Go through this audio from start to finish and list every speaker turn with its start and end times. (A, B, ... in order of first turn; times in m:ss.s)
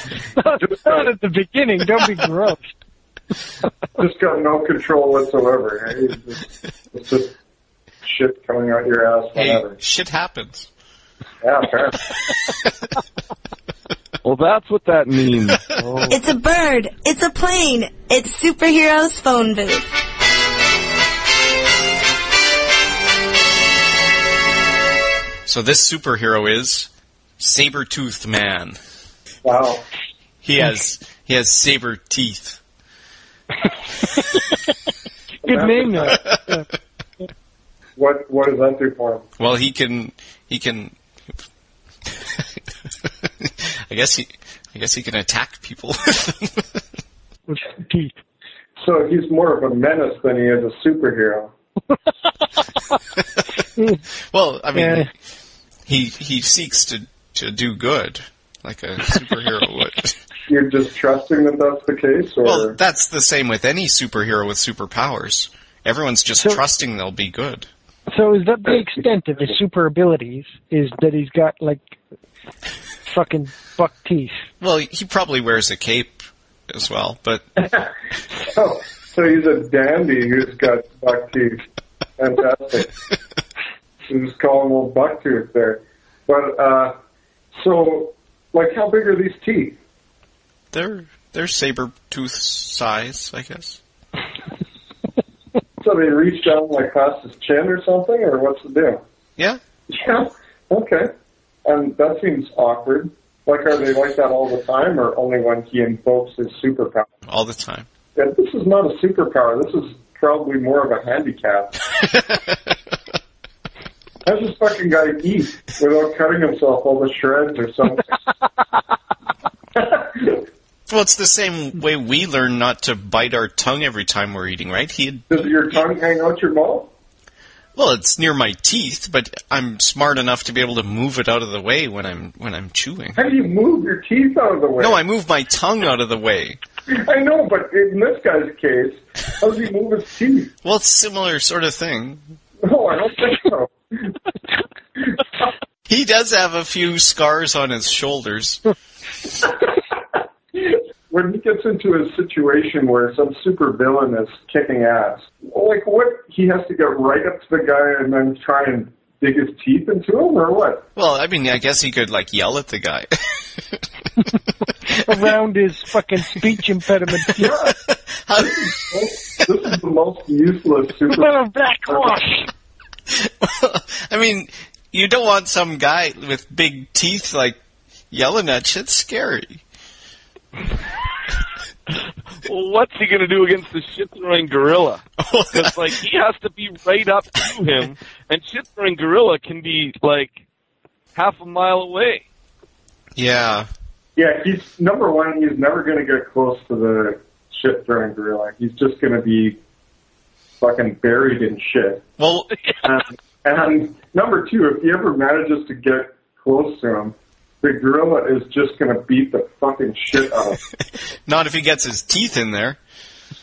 0:00.2-0:02.7 A
0:00.6-0:01.1 B
0:04.0-0:07.4 B
0:08.0-0:09.8 B
0:09.4-0:10.7 C
0:11.4-0:12.0 B
0:14.2-0:16.1 D
0:16.1-0:19.9 E
0:25.4-0:26.9 C
0:27.4-0:28.8 C
0:29.4-0:29.8 B
0:30.4-0:32.6 C
0:35.4-0:36.2 B
0:35.4-0:36.6 A
0:38.0-0:39.2 B
0:39.4-0:41.0 C
0:43.4-0:46.8 C
0:47.5-0:48.1 A
0:48.8-0:51.5 B
0:54.3-0:55.0 C
0:54.7-0:55.1 A
0:55.9-1:00.2 C
1:00.5-1:02.8 B
1:02.4-1:07.7 C
1:08.1-1:11.9 A
1:13.0-1:14.4 A
1:14.6-1:17.4 C
1:17.6-1:21.6 B
1:22.2-1:22.9 B
1:24.0-1:26.9 B
1:27.6-1:29.8 B
1:30.7-1:33.8 C
1:35.8-1:39.0 B
1:39.9-1:41.1 B
1:41.6-1:47.1 B
1:47.3-1:47.9 C
1:48.1-1:51.8 B
1:52.1-1:52.6 C
1:54.2-1:58.2 B
1:59.8-2:00.4 B
2:00.9-2:05.8 C
2:05.3-2:06.9 B
2:07.8-2:13.2 C
2:13.2-2:15.0 B
2:14.8-2:16.6 C
2:16.9-2:20.5 B
2:20.6-2:22.2 C
2:22.6-2:24.2 B
2:25.9-2:28.6 C
2:30.5-2:40.8 B
2:41.0-2:43.8 C
2:44.9-2:47.5 A
2:47.4-2:47.7 B
2:47.7-2:48.6 C
2:48.4-2:51.3 B
2:51.1-2:52.5 A
2:51.9-2:52.2 B
2:53.1-2:57.6 C
2:58.1-2:59.6 C
3:02.4-3:05.0 D
3:05.2-3:05.9 C
3:05.5-3:10.4 D
3:11.1-3:12.2 D
3:13.2-3:13.7 C
3:14.2-3:19.6 B
3:20.6-3:22.0 B
3:22.2-3:22.5 C
3:22.8-3:30.6 B
3:30.8-3:32.8 C